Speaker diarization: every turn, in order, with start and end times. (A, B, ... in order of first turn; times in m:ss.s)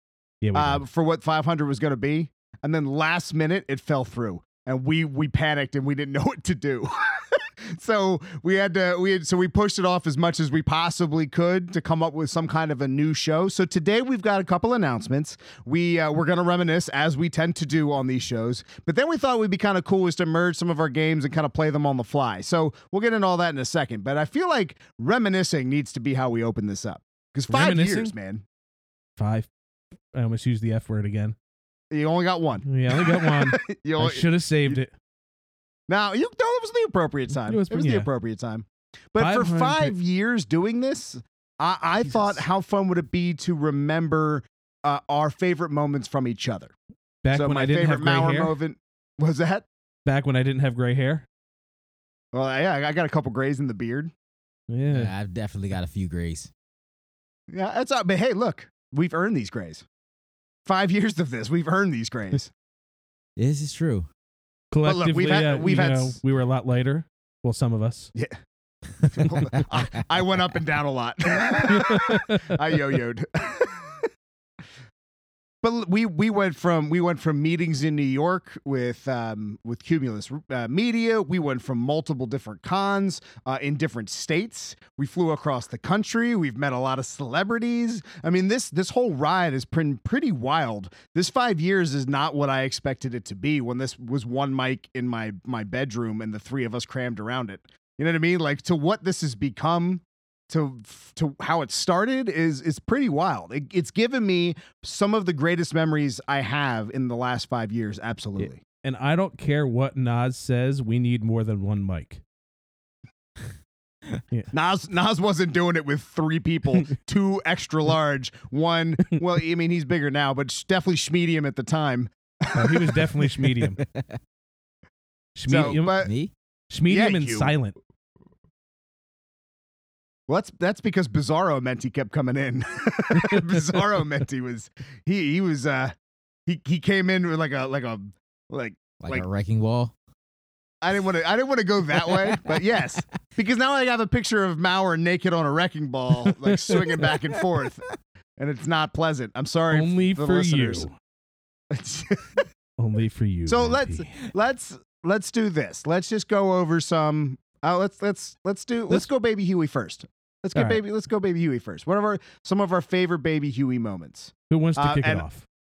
0:00.4-0:00.8 A
0:00.5-0:28.4 B
0:27.5-0:28.1 A
0:29.2-0:29.5 A
0:30.1-0:31.4 A
0:31.9-0:34.8 B
0:32.6-0:34.9 A
0:35.9-0:46.7 B
0:37.4-0:38.1 A
0:39.2-0:39.9 A
0:47.2-0:48.5 A
0:47.3-0:49.6 B
0:50.0-0:51.2 A
0:52.3-0:54.1 B
0:54.7-0:55.1 A
0:54.9-0:56.5 C
0:57.5-0:59.8 B
1:00.6-1:02.5 B
1:03.4-1:04.1 C
1:04.7-1:08.1 A
1:04.8-1:06.2 B
1:09.1-1:14.1 B
1:11.7-1:12.6 A
1:15.6-1:48.6 B
1:48.4-1:52.2 A
1:54.5-2:03.3 B
2:02.5-2:03.8 A
2:03.8-2:04.2 C
2:05.4-2:06.1 A
2:05.4-2:06.1 B
2:05.6-2:06.3 C
2:06.7-2:07.8 A
2:06.9-2:07.5 B
2:10.3-2:15.9 B
2:13.1-2:13.8 A
2:16.4-2:19.2 B
2:19.0-2:19.9 C
2:20.8-2:27.8 B
2:28.4-2:30.9 B
2:29.7-2:30.9 A
2:31.7-2:32.5 B
2:32.8-2:34.2 A
2:33.5-2:45.2 B
2:40.5-2:40.8 A
2:44.5-2:45.4 A